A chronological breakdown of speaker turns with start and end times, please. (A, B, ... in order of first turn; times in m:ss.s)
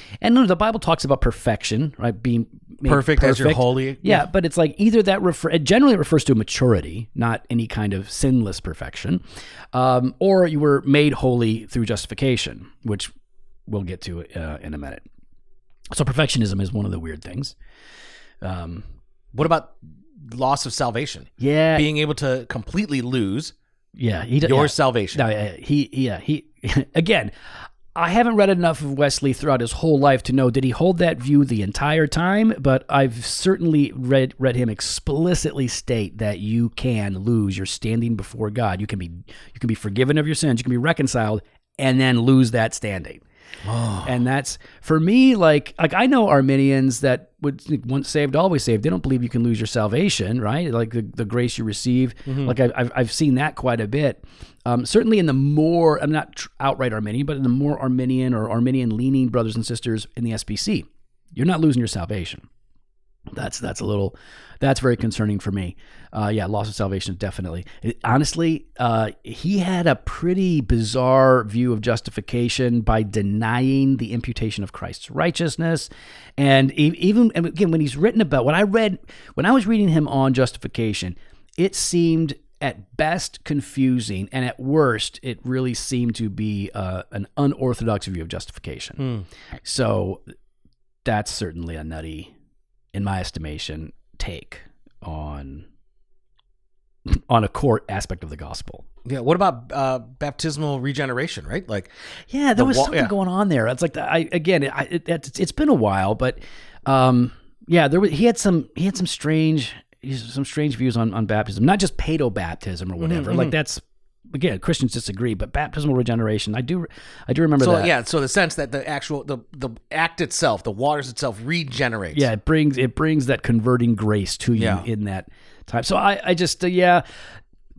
0:00.2-0:09.2 A
0:02.9-0:04.3 B
0:09.7-0:13.1 A
0:13.7-0:15.0 A
0:15.9-0:17.6 A
0:18.4-0:18.8 A
0:19.3-0:23.5 B
0:21.4-0:21.9 A
0:24.0-0:27.3 A
0:24.4-0:25.2 B
0:28.0-0:43.2 A
0:43.6-0:44.1 B
0:44.0-1:02.5 A
0:52.3-0:52.6 B
1:03.3-1:29.1 A
1:29.0-1:29.2 B
1:29.6-1:30.2 A
1:31.0-1:32.3 A
1:32.9-1:35.7 A
1:37.1-1:38.8 A
1:39.0-1:41.9 B
1:42.3-1:57.9 A
1:42.6-1:43.1 B
1:53.0-1:53.5 B
1:57.6-2:02.3 B
2:02.1-2:07.0 A
2:04.6-2:04.8 B